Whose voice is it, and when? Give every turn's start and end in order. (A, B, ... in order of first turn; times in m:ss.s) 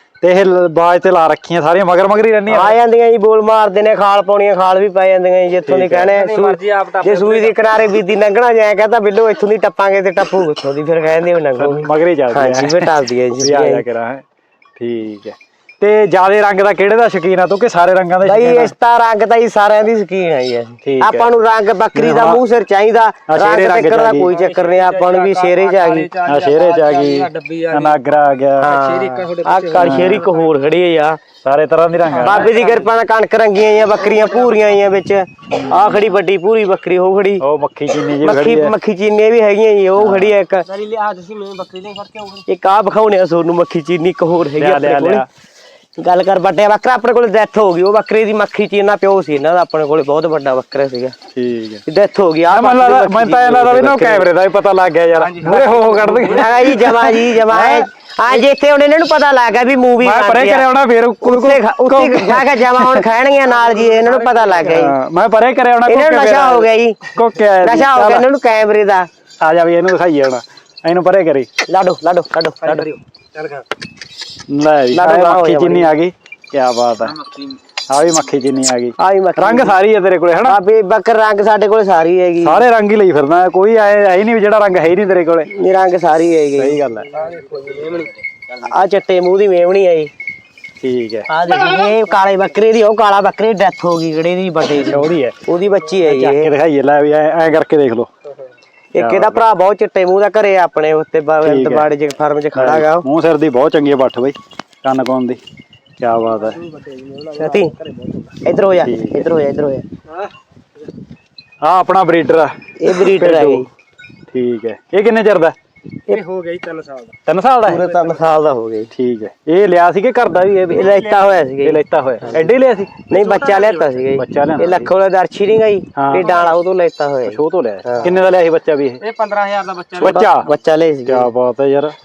0:00.2-0:02.8 A
0:02.5-0:13.8 B
0:05.7-0:06.1 A
0:06.1-0:07.6 C
0:11.5-0:14.2 A
0:14.8-0:18.7 A
0:18.2-0:26.1 B
0:20.8-0:21.3 A
0:21.9-0:22.4 A
0:23.3-0:24.4 A
0:24.4-0:27.9 C
0:26.2-0:28.9 A
0:28.6-0:31.2 B
0:28.7-0:30.1 C
0:29.8-0:30.3 A
0:31.4-0:32.5 A
0:32.2-0:37.4 B
0:35.5-0:35.9 A
0:37.4-0:38.8 A
0:38.2-0:40.8 B
0:40.0-0:40.4 A
0:40.8-0:42.4 C
0:42.2-0:45.2 B
0:44.6-0:45.3 A
0:46.0-0:51.1 B
0:51.3-0:51.8 A
0:51.8-0:54.3 B
0:52.5-0:57.9 A
0:55.3-0:56.2 C
0:56.2-1:00.7 B
1:00.0-1:03.1 A
1:01.2-1:04.9 B
1:03.9-1:04.6 C
1:04.6-1:08.2 A
1:05.8-1:07.1 B
1:07.6-1:09.1 B
1:09.4-1:11.5 A
1:11.7-1:13.0 B
1:12.7-1:13.6 C
1:14.5-1:17.3 A
1:14.9-1:15.9 B
1:17.9-1:20.6 A
1:19.0-1:19.8 B
1:20.4-1:22.6 B
1:22.4-1:25.5 A
1:25.5-1:26.8 B
1:26.6-1:27.2 A
1:27.2-1:28.1 C
1:28.5-1:30.1 B
1:30.8-1:31.3 A
1:31.3-1:36.5 B
1:34.8-1:35.4 A
1:36.0-1:38.1 A
1:38.9-1:43.0 B
1:39.0-1:39.4 A
1:41.4-1:41.9 A
1:42.5-1:45.4 A
1:46.0-1:46.7 A
1:46.7-1:48.2 C
1:47.3-1:47.7 B
1:48.4-1:49.8 B
1:48.8-1:49.2 A
1:51.6-1:53.6 A
1:52.8-1:53.7 B
1:54.3-1:55.5 A
1:56.1-1:57.1 C
1:57.2-1:57.9 A
1:57.7-1:58.9 B
1:58.9-2:03.0 A
2:00.7-2:01.8 B
2:03.1-2:08.1 B
2:03.1-2:03.7 C
2:04.1-2:04.9 A
2:06.0-2:06.4 A
2:07.3-2:09.0 A
2:09.0-2:10.2 C
2:10.0-2:10.5 A
2:10.0-2:11.3 B
2:11.0-2:11.9 A